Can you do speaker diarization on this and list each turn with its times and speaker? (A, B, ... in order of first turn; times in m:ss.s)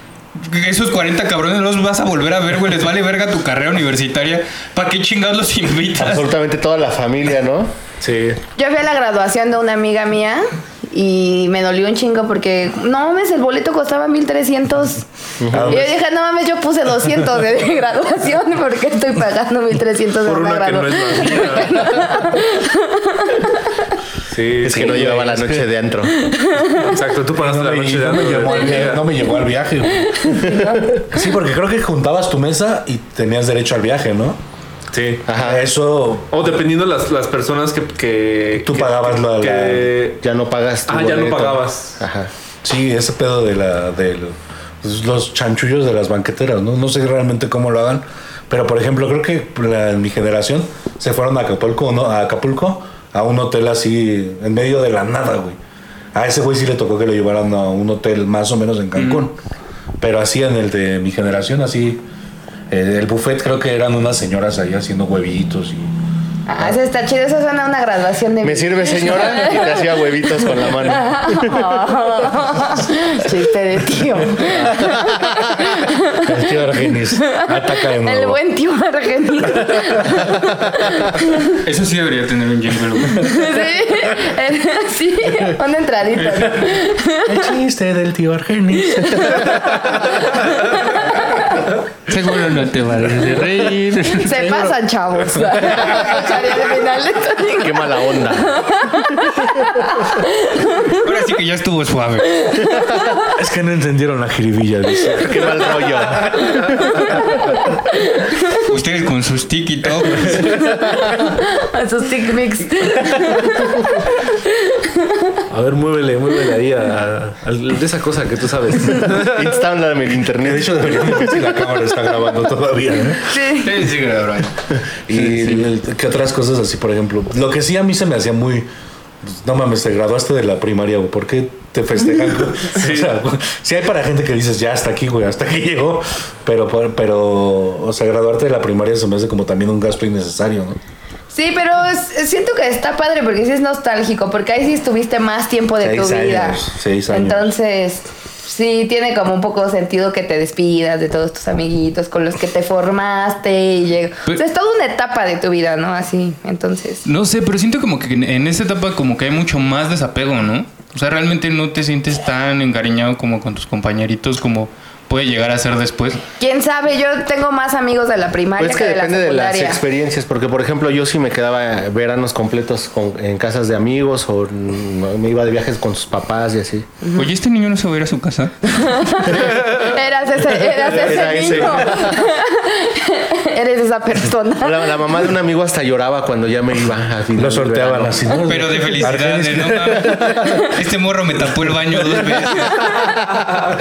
0:00.3-0:06.2 A
0:06.0-0:07.7 B
0:08.0-0:08.4 C
0:08.6-0:15.0 D
0:15.4-0:15.8 B
0:15.5-0:15.9 E
0:15.7-0:23.4 D
0:20.2-0:22.3 C
0:24.3-0:25.7 C
0:24.6-0:26.2 B
0:26.2-0:27.0 D
0:26.7-0:29.1 C
0:27.3-0:30.4 E
0:30.0-0:31.0 D
0:30.5-0:30.8 B
0:31.1-0:34.4 E
0:34.9-0:35.3 C
0:35.3-0:35.6 B
0:35.4-0:36.6 E
0:36.3-0:40.2 C
0:38.6-0:40.0 E
0:40.2-0:42.3 B
0:40.9-0:42.0 C
0:42.6-0:55.6 E
0:56.1-0:59.4 E
0:59.0-0:59.3 A
1:00.0-1:02.0 E
1:02.7-1:05.9 E
1:06.5-1:21.6 D
1:08.4-1:12.1 B
1:16.1-1:18.4 E
1:21.6-1:23.4 A
1:23.2-1:27.5 D
1:27.2-1:29.8 E
1:28.8-1:29.6 D
1:30.9-1:31.4 D
1:32.1-1:34.3 A
1:34.1-1:41.0 D
1:34.2-1:34.8 E
1:35.4-1:35.7 E
1:37.5-1:38.6 B
1:40.8-1:42.5 A
1:43.3-1:46.3 E
1:45.1-1:46.7 B
1:48.6-1:50.5 A
1:50.5-1:55.4 D
1:55.5-1:59.5 C
1:59.1-2:01.3 B
2:00.4-2:03.4 E
2:03.3-2:03.7 D
2:03.6-2:04.5 A
2:05.1-2:08.7 E
2:05.2-2:05.6 B
2:09.2-2:20.8 E
2:12.7-2:13.1 C
2:21.3-2:37.0 D
2:25.8-2:27.5 E
2:37.0-2:46.2 A
2:46.4-2:49.8 D
2:48.6-2:56.9 B
2:57.1-2:59.0 A
2:58.6-3:04.9 D
3:00.7-3:02.3 B
3:04.6-3:08.3 B
3:07.4-3:10.5 E
3:08.4-3:12.9 A